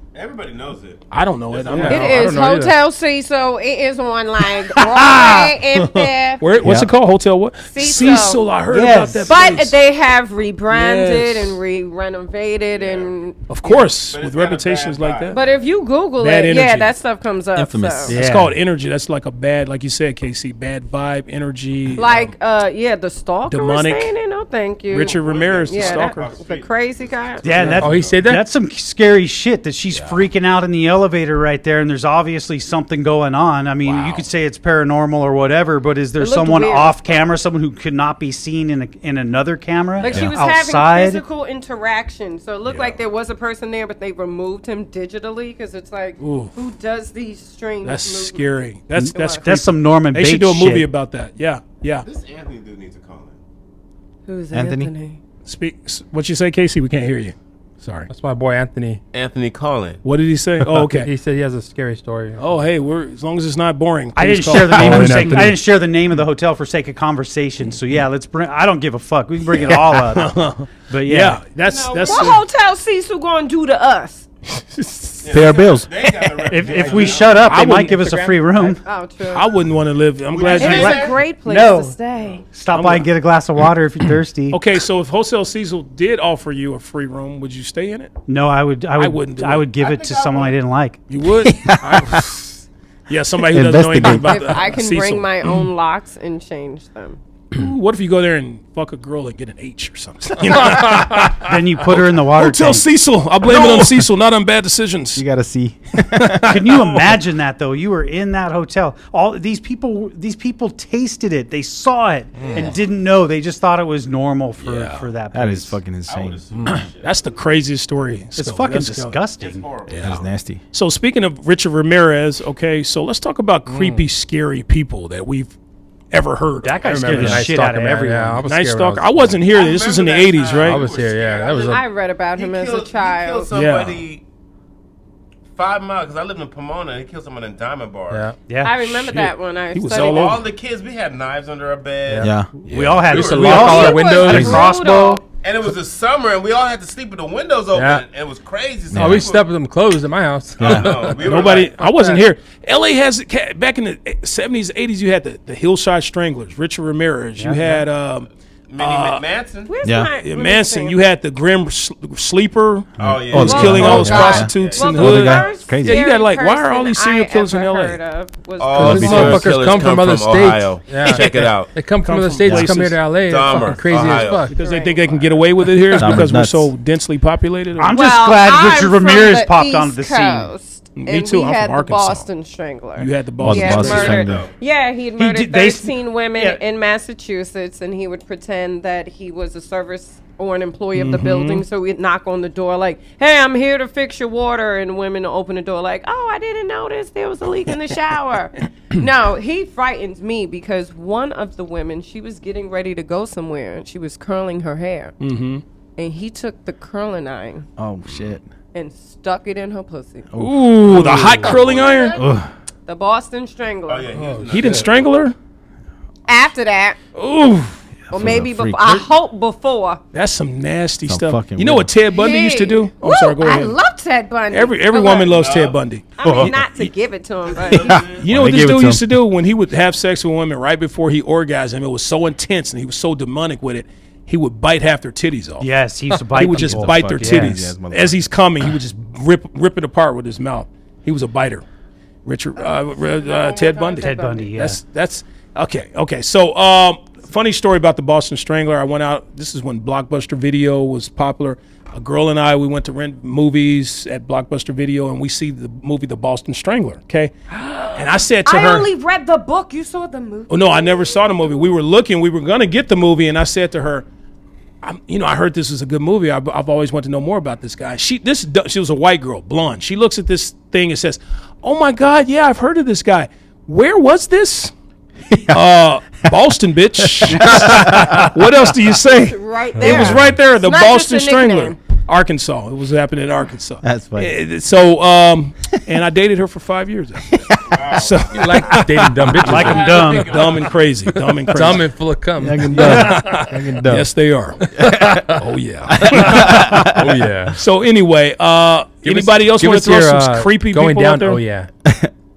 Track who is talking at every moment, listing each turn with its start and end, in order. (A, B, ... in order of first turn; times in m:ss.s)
0:00.1-0:02.4 A
0:01.1-0:02.4 B
0:01.8-0:06.6 C
0:01.9-0:02.8 D
0:05.2-0:05.4 E
0:05.4-0:09.7 B
0:06.6-0:06.9 F
0:07.6-0:08.5 C
0:08.7-0:09.3 E
0:09.3-0:13.9 C
0:10.7-0:11.6 B
0:12.7-0:13.1 A
0:13.5-0:15.4 B
0:13.7-0:15.6 A
0:15.3-0:18.2 C
0:16.2-0:16.9 B
0:17.6-0:18.2 F
0:18.1-0:18.5 E
0:18.1-0:22.3 B
0:22.0-0:27.7 C
0:23.5-0:24.1 B
0:24.9-0:26.3 B
0:24.9-0:28.2 A
0:27.4-0:41.2 E
0:27.8-0:28.4 D
0:33.8-0:34.2 F
0:36.2-0:37.0 C
0:40.0-0:48.5 C
0:40.0-0:40.3 F
0:42.7-0:43.0 F
0:46.2-0:46.6 B
0:47.8-0:52.1 B
0:49.0-0:50.9 E
0:49.1-0:49.5 C
0:52.0-0:53.4 A
0:54.3-0:55.2 C
0:54.5-0:54.9 F
0:55.4-0:58.1 B
0:58.1-0:59.0 D
0:59.1-1:00.0 A
1:00.0-1:01.1 B
1:00.8-1:02.5 D
1:02.4-1:05.5 B
1:04.2-1:11.4 E
1:04.6-1:05.6 D
1:09.6-1:12.4 B
1:11.6-1:14.3 C
1:14.6-1:15.6 B
1:15.2-1:17.5 A
1:15.3-1:15.9 F
1:16.5-1:18.8 E
1:16.6-1:18.4 B
1:18.6-1:19.5 C
1:19.3-1:21.1 B
1:20.3-1:21.2 A
1:20.4-1:21.9 E
1:20.5-1:22.4 C
1:22.5-1:24.6 E
1:22.7-1:23.1 B
1:24.5-1:28.1 B
1:28.3-1:31.0 E
1:29.0-1:29.7 B
1:29.8-1:30.6 A
1:31.1-1:35.7 B
1:31.4-1:32.3 F
1:33.5-1:34.6 F
1:34.0-1:37.2 C
1:37.5-1:45.2 B
1:41.4-1:42.9 E
1:43.6-1:43.8 F
1:45.2-1:46.6 F
1:46.2-1:47.1 B
1:46.5-1:55.8 E
1:52.4-1:52.7 B
1:54.6-1:55.1 B
1:55.3-1:56.4 F
1:56.1-1:57.4 A
1:56.6-1:56.8 D
1:56.7-1:59.2 B
1:58.4-1:59.6 E
1:59.4-2:00.2 A
1:59.9-2:05.5 B
2:00.0-2:00.6 F
2:03.7-2:04.1 D
2:06.1-2:07.5 B
2:06.6-2:08.4 E
2:06.8-2:09.3 D
2:08.4-2:10.8 B
2:09.5-2:11.8 A
2:10.5-2:11.8 D
2:11.6-2:13.5 C
2:12.4-2:14.2 A
2:13.5-2:14.0 B
2:15.6-2:18.3 A
2:18.1-2:18.4 D
2:18.5-2:18.8 E
2:18.6-2:20.4 C
2:19.7-2:20.4 B
2:19.9-2:22.3 A
2:22.2-2:22.5 F
2:22.7-2:25.2 E
2:22.7-2:24.0 B
2:23.1-2:24.7 D
2:23.1-2:24.0 A
2:23.6-2:25.2 C
2:24.3-2:24.6 F
2:25.4-2:29.5 A
2:27.7-2:28.0 D
2:28.9-2:29.3 F
2:28.9-2:32.2 D
2:30.6-2:31.0 F
2:30.6-2:31.8 A
2:31.2-2:38.3 B
2:37.4-2:37.8 E
2:38.7-2:39.7 A
2:38.8-2:39.2 B
2:39.7-2:41.0 C
2:39.8-2:40.1 F
2:40.2-2:48.0 B
2:43.0-2:45.5 A
2:43.0-2:46.0 F
2:43.4-2:49.4 C
2:48.6-2:51.7 A
2:48.8-2:54.5 D
2:48.8-2:49.5 F
2:52.0-2:53.7 B
2:52.4-2:52.7 F
2:53.2-2:54.5 A
2:54.5-2:55.2 C
2:54.5-2:58.0 B
2:55.9-2:56.7 F
2:57.8-3:00.5 E
2:57.9-3:25.2 C
3:01.0-3:02.3 B
3:03.0-3:04.2 B
3:03.4-3:04.4 F
3:03.8-3:04.6 A
3:05.2-3:06.6 E
3:11.0-3:11.6 B
3:25.2-3:25.6 B
3:26.0-3:27.7 C
3:27.8-3:28.5 F
3:28.7-3:30.3 C
3:30.3-3:31.6 F
3:30.4-3:32.2 B
3:31.6-3:32.1 A
3:31.7-3:32.2 C
3:32.2-3:32.5 F
3:32.9-3:34.3 C
3:33.9-3:35.1 A
3:34.1-3:34.9 D
3:34.5-3:35.4 B
3:36.3-3:37.0 C
3:37.2-3:37.8 B
3:38.1-3:40.0 C
3:38.1-3:39.1 F
3:40.1-3:43.8 B
3:41.1-3:41.9 F
3:42.1-3:45.4 C
3:44.5-3:46.5 B
3:45.2-3:46.5 A
3:46.2-3:48.1 C
3:46.2-3:46.9 F
3:47.5-3:48.2 A
3:47.8-3:49.1 F
3:48.2-3:55.7 B
3:55.6-3:57.5 E
3:56.4-4:01.6 B
3:56.5-3:58.3 F
4:02.2-4:17.3 B
4:02.6-4:04.5 C
4:04.0-4:04.8 E
4:17.5-4:21.5 C
4:18.0-4:18.9 B
4:20.5-4:24.0 B
4:24.8-4:34.7 B
4:35.3-4:35.6 F
4:35.5-4:47.4 B
4:37.0-4:38.3 F
4:39.1-4:41.8 C
4:39.8-4:40.4 F
4:43.8-4:44.4 F
4:47.3-4:47.8 F
4:47.6-4:48.5 A
4:47.9-4:51.9 B
4:48.3-4:50.4 D
4:49.4-4:50.4 E
4:51.5-4:54.0 D
4:52.4-4:54.1 F
4:52.7-4:54.6 B
4:54.6-4:55.4 D
4:54.8-4:55.3 F
4:55.4-4:56.6 B
4:55.9-4:57.2 F
4:56.0-4:57.6 D
4:57.6-5:01.4 B
4:59.0-5:01.7 D
5:01.8-5:02.1 F